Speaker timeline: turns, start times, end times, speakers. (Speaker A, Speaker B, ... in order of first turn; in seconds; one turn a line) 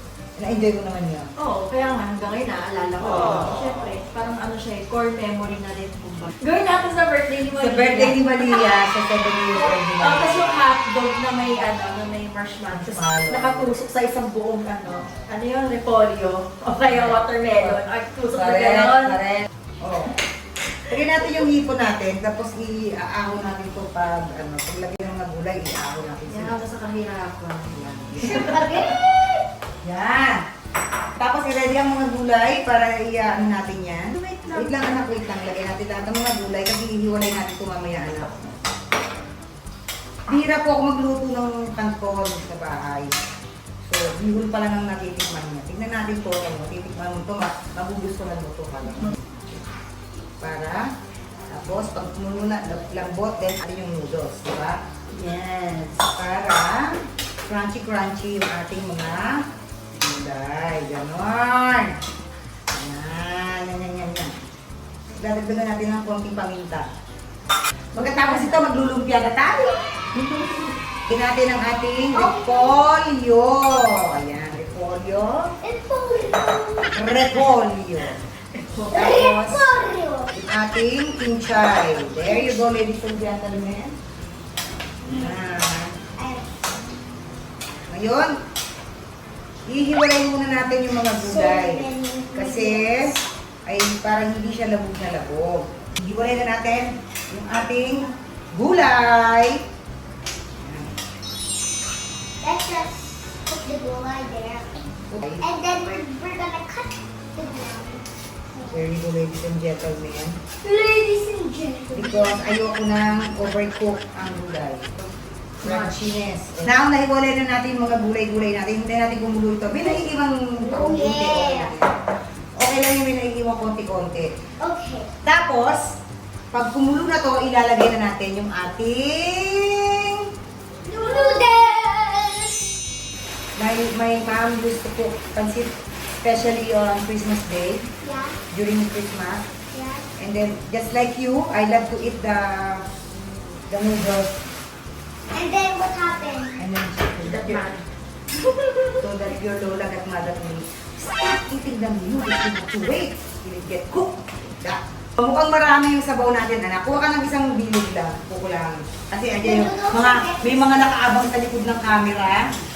Speaker A: 0.4-1.3
Speaker B: 1.4-8.8
Speaker A: 7.6-10.6
Speaker B: 10.0-19.2
Speaker A: 12.7-13.8
Speaker A: 16.9-17.8
Speaker A: 18.3-20.1
Speaker A: 20.9-26.6
Speaker B: 26.3-28.8
Speaker A: 27.7-28.8
Speaker C: 28.2-29.4
Speaker A: 29.8-30.4
Speaker A: 31.2-38.6
Speaker B: 34.2-34.7
Speaker A: 40.3-43.1
Speaker A: 43.8-49.6
Speaker A: 50.4-50.8
Speaker A: 51.5-59.4
Speaker A: 59.9-62.0
Speaker A: 62.7-64.3
Speaker A: 65.2-66.9
Speaker A: 67.9-69.8
Speaker A: 71.1-75.4
Speaker C: 72.2-72.8
Speaker C: 75.6-76.9
Speaker A: 77.0-78.2
Speaker B: 78.6-79.1
Speaker A: 78.9-79.7
Speaker C: 78.9-80.3
Speaker A: 80.3-84.0
Speaker A: 85.0-85.9
Speaker C: 85.0-85.4
Speaker C: 86.2-86.6
Speaker A: 87.9-88.3
Speaker A: 89.7-92.9
Speaker C: 91.2-93.2
Speaker A: 93.7-99.6
Speaker A: 100.6-100.9
Speaker C: 102.4-104.8
Speaker A: 105.1-105.4
Speaker C: 105.4-108.8
Speaker A: 108.7-110.4
Speaker C: 110.6-112.5
Speaker A: 111.9-115.1
Speaker B: 115.6-116.0
Speaker A: 115.6-122.0
Speaker C: 120.6-121.7
Speaker A: 122.6-124.3
Speaker C: 124.6-125.1
Speaker A: 125.2-125.9
Speaker A: 126.5-130.2
Speaker C: 130.8-132.8
Speaker A: 133.6-137.8
Speaker C: 138.0-138.4
Speaker A: 138.5-139.5
Speaker C: 139.7-140.1
Speaker A: 140.2-142.8
Speaker A: 143.7-144.4
Speaker C: 145.3-146.6
Speaker A: 146.6-147.7
Speaker B: 147.2-147.8
Speaker B: 148.4-149.1
Speaker A: 149.0-162.4
Speaker C: 159.4-161.1